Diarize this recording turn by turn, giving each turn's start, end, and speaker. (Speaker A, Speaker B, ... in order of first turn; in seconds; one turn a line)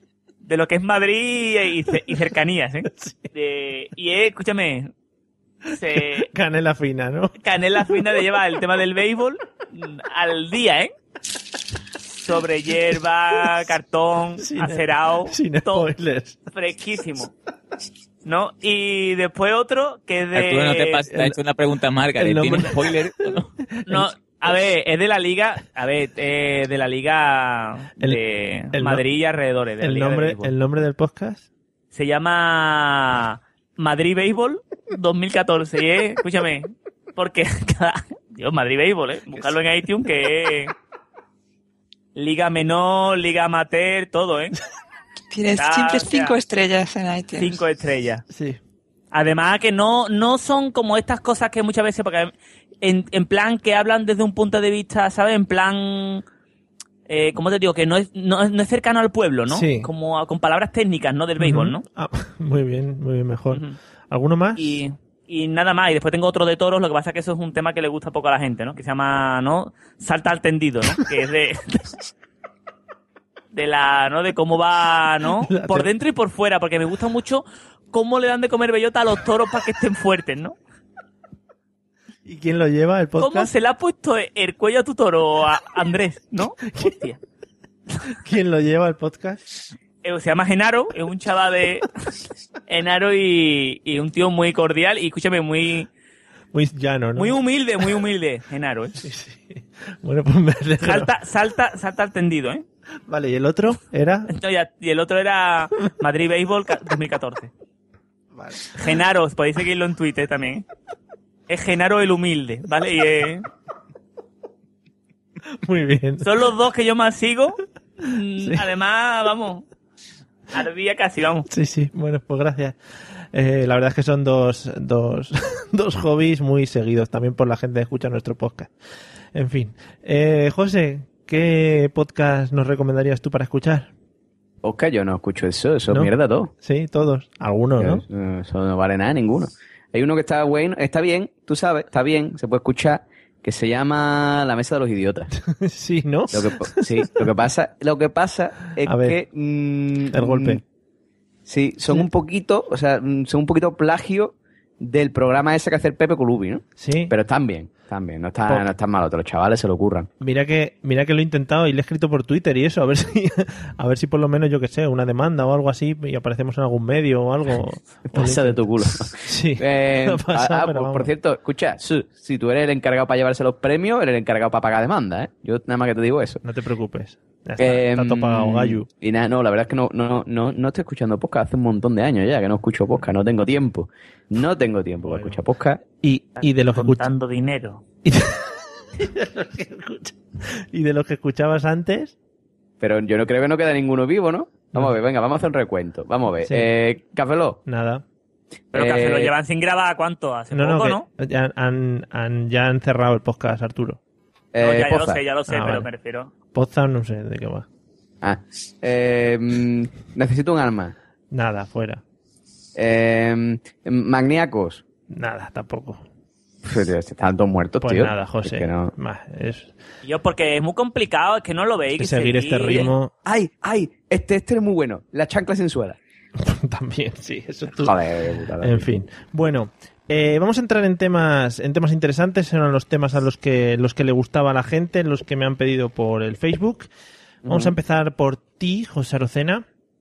Speaker A: 0.4-4.9
Speaker B: 2.9-3.2
Speaker A: 5.7-6.3
Speaker B: 6.0-7.3
Speaker A: 7.4-10.9
Speaker A: 12.1-15.9
Speaker B: 14.4-16.4
Speaker A: 16.5-17.3
Speaker A: 18.2-21.0
Speaker C: 20.3-23.5
Speaker B: 22.2-24.1
Speaker A: 23.9-30.5
Speaker B: 28.7-29.0
Speaker B: 29.8-31.5
Speaker A: 31.9-40.7
Speaker A: 42.1-44.6
Speaker D: 45.3-47.6
Speaker A: 45.6-46.4
Speaker A: 47.4-48.2
Speaker B: 48.3-48.6
Speaker A: 49.1-56.2
Speaker A: 57.1-61.8
Speaker B: 59.5-59.9
Speaker B: 61.4-64.8
Speaker A: 63.5-63.8
Speaker A: 64.5-71.9
Speaker A: 73.5-80.5
Speaker B: 75.4-75.9
Speaker B: 82.2-83.5
Speaker A: 83.2-87.2
Speaker B: 88.1-89.4
Speaker A: 90.0-91.9
Speaker A: 92.7-95.9
Speaker B: 96.5-97.4
Speaker A: 97.2-99.0
Speaker B: 99.0-101.1
Speaker A: 100.8-102.6
Speaker B: 103.1-104.3
Speaker A: 104.3-107.5
Speaker B: 108.3-108.7
Speaker A: 108.7-110.6
Speaker A: 111.5-113.5
Speaker B: 115.5-116.3
Speaker A: 116.2-119.6
Speaker A: 120.5-121.5
Speaker B: 121.5-122.8
Speaker B: 123.3-128.7
Speaker B: 129.3-133.9
Speaker E: 134.6-136.5
Speaker B: 135.9-138.0
Speaker E: 137.8-145.3
Speaker B: 145.4-147.3
Speaker E: 146.3-150.6
Speaker B: 148.8-149.2
Speaker B: 150.1-150.6
Speaker E: 151.5-160.1
Speaker B: 156.8-157.1
Speaker B: 160.2-171.1
Speaker E: 168.1-176.4
Speaker B: 176.4-178.9
Speaker E: 177.6-185.8
Speaker B: 185.0-187.1
Speaker A: 186.4-187.8
Speaker B: 188.0-192.1
Speaker E: 192.8-197.6
Speaker B: 196.4-196.7
Speaker B: 197.7-198.0
Speaker E: 198.7-199.3
Speaker A: 198.7-201.0
Speaker B: 200.5-204.0
Speaker E: 204.5-205.2
Speaker A: 204.6-206.3
Speaker B: 205.5-205.9
Speaker B: 206.5-207.7
Speaker E: 208.2-210.9
Speaker B: 211.3-212.0
Speaker E: 212.8-214.8
Speaker B: 215.1-216.0
Speaker E: 216.6-218.9
Speaker B: 217.8-219.7
Speaker A: 220.0-222.9
Speaker B: 222.0-223.1
Speaker E: 223.2-226.0
Speaker B: 226.4-228.0
Speaker E: 227.8-228.9
Speaker B: 228.6-236.9
Speaker E: 237.4-237.7
Speaker B: 237.4-239.6